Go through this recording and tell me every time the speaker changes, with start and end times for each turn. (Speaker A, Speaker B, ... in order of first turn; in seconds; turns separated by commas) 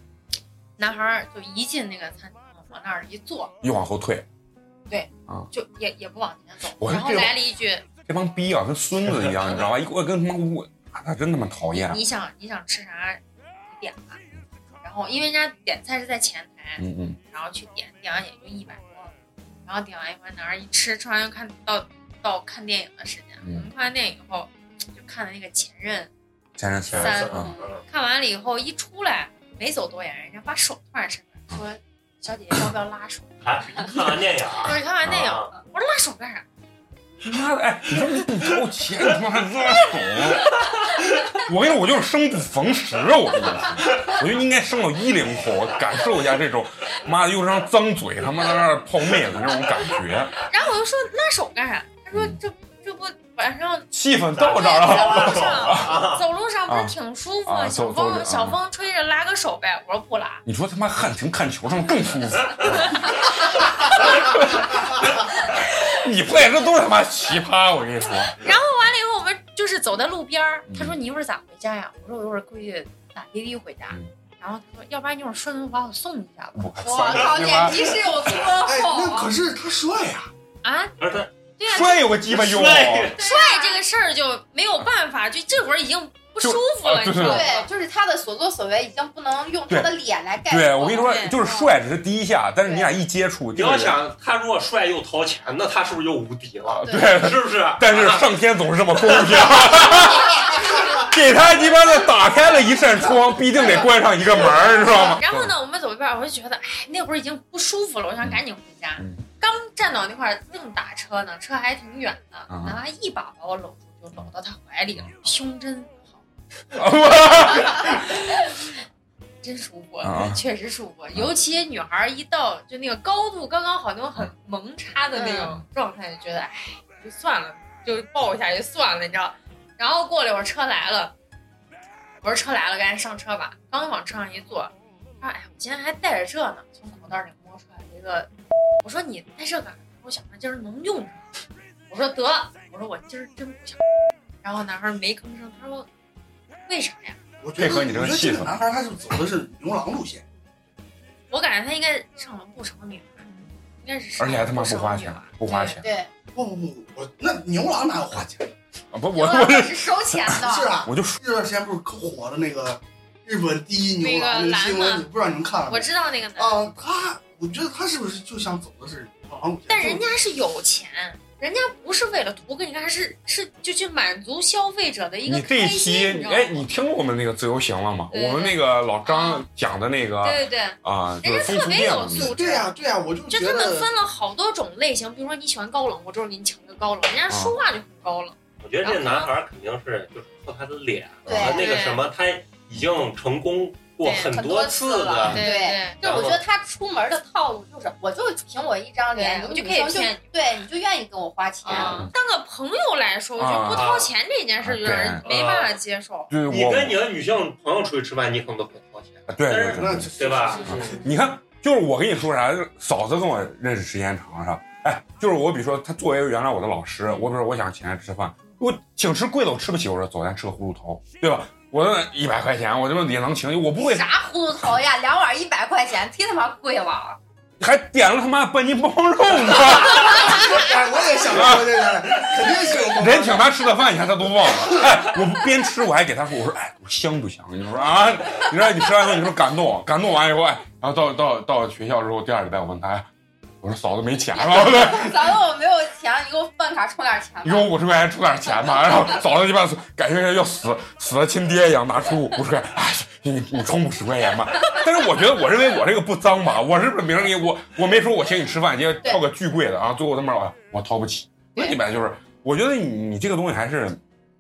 Speaker A: 0.8-3.5, Speaker B: 3.6-4.3, Speaker A: 4.9-7.8, Speaker B: 6.8-7.4, Speaker B: 8.1-12.0, Speaker A: 11.7-14.2, Speaker A: 14.8-19.1, Speaker B: 16.8-17.2, Speaker A: 19.6-26.1, Speaker B: 23.4-23.7, Speaker B: 26.6-27.5, Speaker C: 26.9-27.8, Speaker A: 27.0-36.5, Speaker C: 33.4-35.5, Speaker B: 37.2-40.5, Speaker B: 41.4-50.4, Speaker A: 50.4-60.4, Speaker B: 53.9-56.0, Speaker C: 54.4-56.2, Speaker B: 56.7-57.0, Speaker B: 57.5-58.6, Speaker B: 60.5-65.0, Speaker B: 65.9-68.5, Speaker A: 68.4-76.7, Speaker B: 70.7-71.0, Speaker B: 76.5-78.0, Speaker D: 76.8-79.3, Speaker A: 77.9-79.3, Speaker E: 78.6-80.3, Speaker A: 80.6-81.0, Speaker C: 81.0-81.3, Speaker A: 81.6-82.1, Speaker B: 81.6-83.2, Speaker C: 82.3-83.2, Speaker D: 83.2-83.8, Speaker A: 83.2-87.7, Speaker B: 86.4-87.5, Speaker D: 87.2-91.7, Speaker B: 89.7-89.9, Speaker B: 90.5-94.0, Speaker A: 91.0-91.4, Speaker D: 92.6-92.9, Speaker C: 93.5-98.3, Speaker B: 96.7-105.5, Speaker D: 96.8-97.1, Speaker C: 99.1-99.6, Speaker D: 100.3-100.8, Speaker A: 104.8-116.2, Speaker B: 109.0-109.2, Speaker B: 112.5-112.8, Speaker B: 116.7-118.1, Speaker A: 117.2-118.7, Speaker A: 119.4-131.1, Speaker B: 120.0-120.4, Speaker D: 125.1-125.5, Speaker A: 132.2-138.3, Speaker A: 138.8-141.3, Speaker A: 141.9-143.8, Speaker A: 144.4-145.9, Speaker A: 146.7-147.2, Speaker E: 147.4-150.2, Speaker B: 147.6-148.5, Speaker A: 151.3-155.8, Speaker B: 154.2-155.9, Speaker D: 155.8-156.1, Speaker E: 156.3-158.5, Speaker B: 158.9-161.2, Speaker D: 159.1-160.7, Speaker E: 160.4-170.1, Speaker A: 164.0-165.1, Speaker A: 165.7-166.6, Speaker A: 169.7-176.6, Speaker B: 175.3-182.4, Speaker A: 178.1-179.4, Speaker A: 180.2-182.7, Speaker E: 182.1-183.9, Speaker A: 183.3-189.3, Speaker B: 187.3-187.6, Speaker C: 188.6-195.4, Speaker B: 191.3-191.5, Speaker D: 191.3-191.7, Speaker A: 191.5-192.1, Speaker A: 194.0-194.3, Speaker D: 194.3-202.0, Speaker A: 195.3-196.1, Speaker C: 196.0-196.4, Speaker A: 199.1-200.3, Speaker A: 201.6-206.3, Speaker B: 201.7-202.1, Speaker B: 203.4-203.9, Speaker C: 203.7-204.1, Speaker B: 204.6-205.2, Speaker C: 205.2-205.8, Speaker B: 206.3-207.0, Speaker C: 206.5-211.0, Speaker B: 209.3-210.1, Speaker E: 209.7-211.1, Speaker B: 210.6-224.1, Speaker D: 223.8-227.2, Speaker B: 227.6-230.6, Speaker E: 230.1-233.5, Speaker B: 231.3-231.9, Speaker B: 232.5-243.1, Speaker B: 243.6-245.3, Speaker D: 244.4-247.7, Speaker B: 247.4-264.0